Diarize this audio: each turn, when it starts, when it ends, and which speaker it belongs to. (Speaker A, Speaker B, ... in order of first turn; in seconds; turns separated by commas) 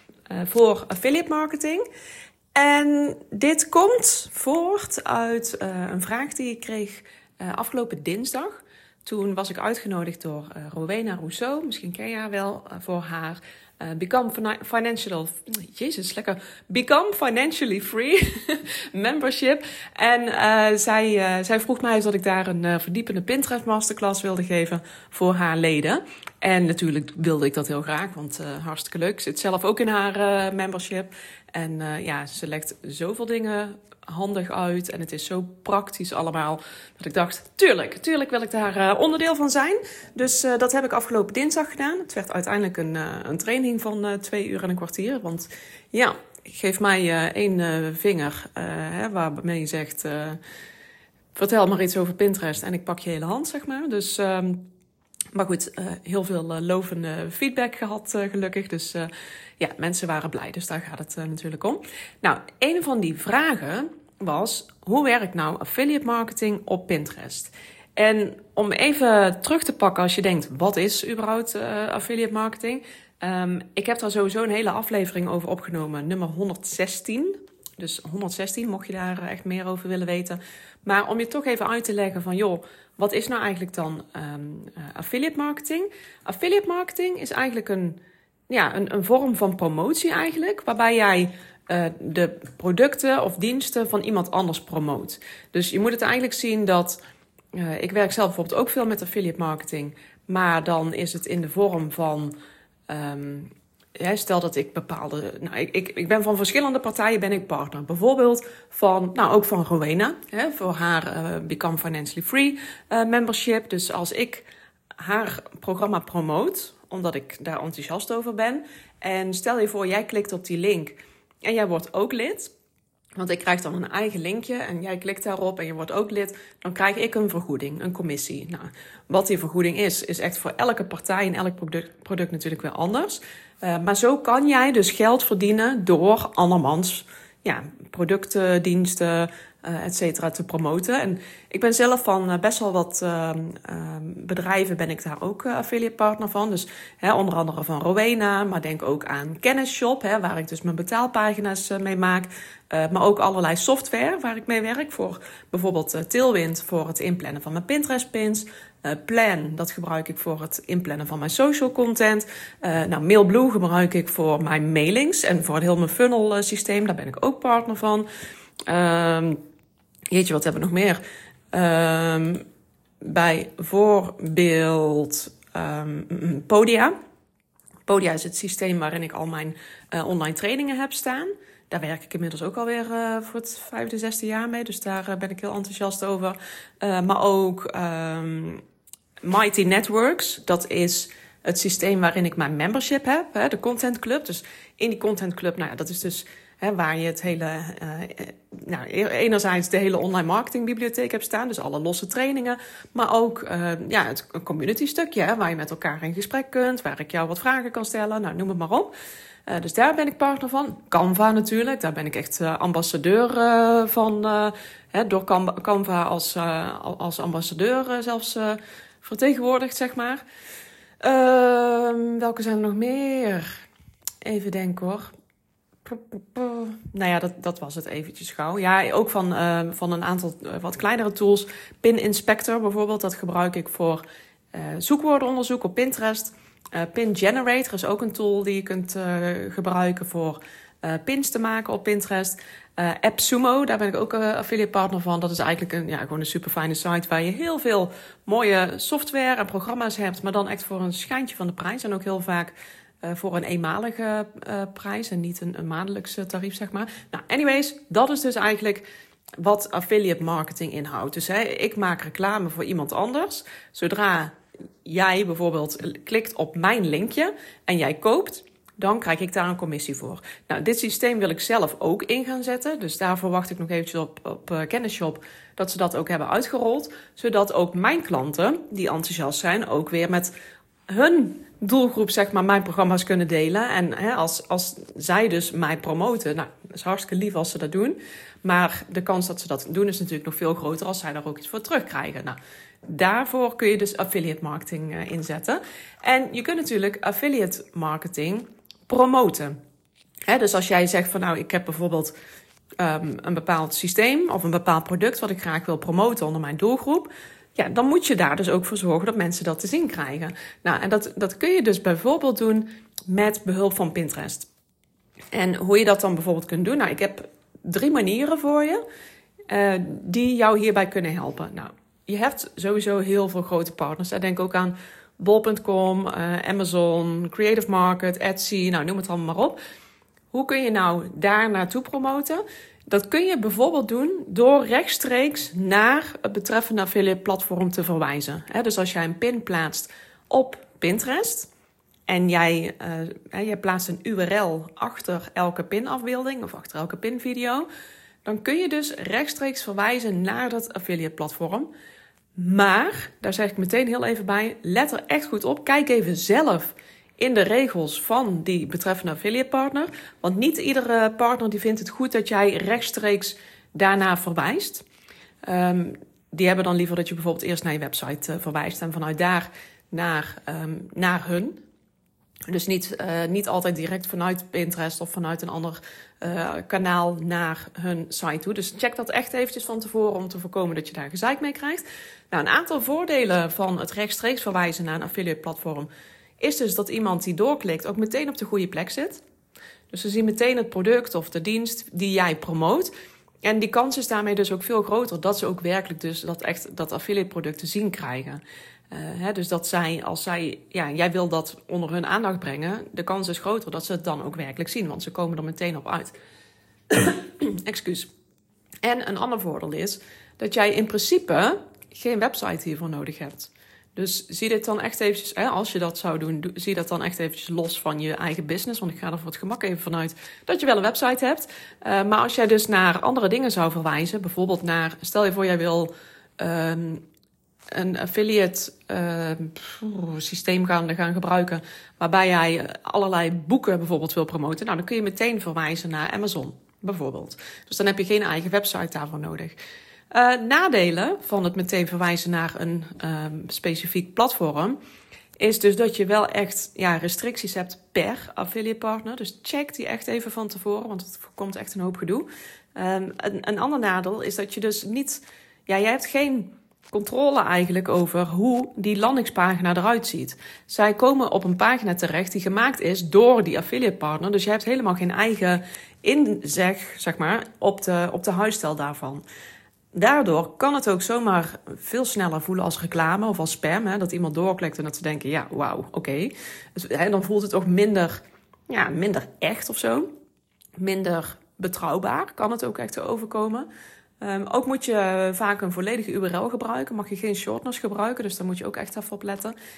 Speaker A: 0.3-1.8, Speaker A: 2.5-50.4, Speaker A: 51.3-54.7, Speaker A: 55.3-97.0, Speaker A: 97.5-102.3, Speaker A: 102.9-114.5, Speaker A: 115.0-122.5, Speaker A: 123.2-168.1, Speaker A: 168.7-169.4, Speaker A: 170.1-171.0, Speaker A: 171.5-172.4, Speaker A: 173.0-176.9, Speaker A: 177.9-188.6, Speaker A: 189.2-208.9, Speaker A: 209.5-220.2, Speaker A: 221.0-223.5, Speaker A: 224.2-225.1, Speaker A: 225.8-234.0, Speaker A: 234.5-258.9, Speaker A: 259.4-280.3, Speaker A: 280.9-299.6, Speaker A: 300.3-302.1, Speaker A: 302.8-314.5, Speaker A: 315.3-318.8, Speaker A: 319.5-329.6, Speaker A: 330.3-341.5, Speaker A: 342.1-347.7, Speaker A: 348.2-351.7, Speaker A: 352.4-364.8, Speaker A: 365.4-371.6, Speaker A: 372.5-385.9, Speaker A: 386.4-389.2, Speaker A: 389.9-392.9, Speaker A: 393.4-406.2, Speaker A: 406.9-408.1, Speaker A: 408.8-427.0, Speaker A: 427.7-439.6, Speaker A: 440.1-444.8, Speaker A: 445.4-469.2, Speaker A: 469.9-480.1, Speaker A: 480.8-483.7, Speaker A: 484.2-489.6